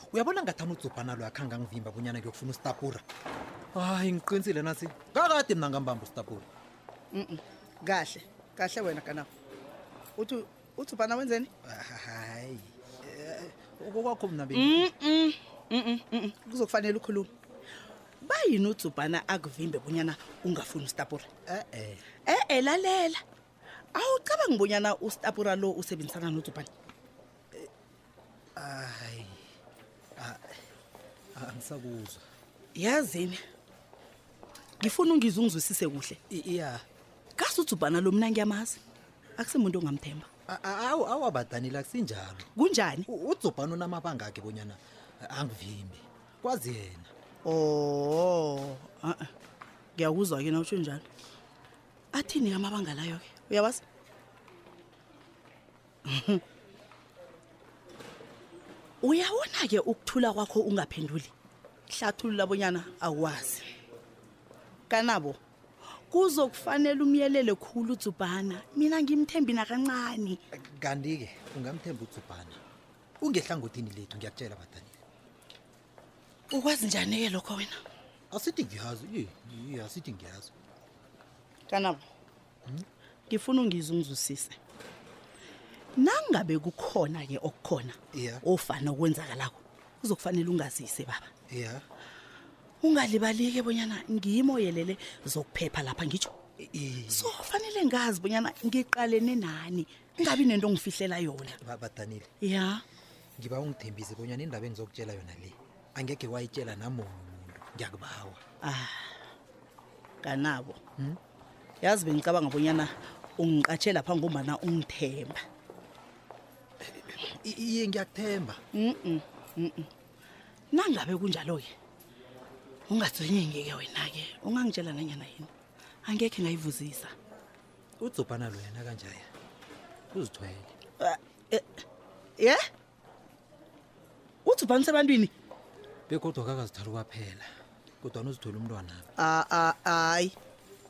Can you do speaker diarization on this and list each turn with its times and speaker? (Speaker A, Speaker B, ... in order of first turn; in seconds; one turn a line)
Speaker A: 0.1-3.0
Speaker A: 3.7-6.5
Speaker B: 7.1-9.3
Speaker B: 10.2-11.5
Speaker A: 11.6-14.9
Speaker B: 14.5-17.3
Speaker B: 18.2-21.3
Speaker A: 21.5-22.0
Speaker B: 22.2-23.2
Speaker B: 23.9-26.7
Speaker A: 28.6-29.4
Speaker A: 30.2-30.4
Speaker A: 31.3-32.2
Speaker B: 32.7-33.4
Speaker B: 34.8-36.2
Speaker A: 36.3-36.8
Speaker B: 37.4-38.8
Speaker B: 39.4-40.3
Speaker A: 40.5-42.5
Speaker B: 42.5-43.0
Speaker A: 43.0-47.1
Speaker B: 47.4-49.3
Speaker B: 50.0-51.0
Speaker B: 52.1-53.8
Speaker B: 56.1-56.4
Speaker B: 59.0-61.3
Speaker B: 61.9-63.6
Speaker B: 64.9-65.4
Speaker B: 66.1-70.4
Speaker A: 70.5-72.6
Speaker A: 73.2-75.0
Speaker B: 76.5-77.8
Speaker A: 78.3-80.5
Speaker B: 81.7-82.0
Speaker B: 83.3-84.5
Speaker B: 86.0-91.3
Speaker A: 88.1-88.4
Speaker A: 91.5-91.8
Speaker B: 92.8-96.3
Speaker A: 96.6-97.3
Speaker B: 97.1-101.5
Speaker A: 101.6-102.3
Speaker B: 102.4-102.8
Speaker A: 103.4-108.4
Speaker B: 108.6-109.1
Speaker B: 110.2-110.8
Speaker B: 111.8-115.4
Speaker A: 117.2-118.6
Speaker B: 118.7-119.9
Speaker B: 120.7-121.7
Speaker B: 122.9-125.5
Speaker B: 126.0-127.1
Speaker A: 128.0-129.2
Speaker A: 130.1-130.7
Speaker B: 131.0-131.8
Speaker B: 134.4-135.3
Speaker A: 136.1-137.4
Speaker A: 138.0-139.1
Speaker B: 139.2-140.3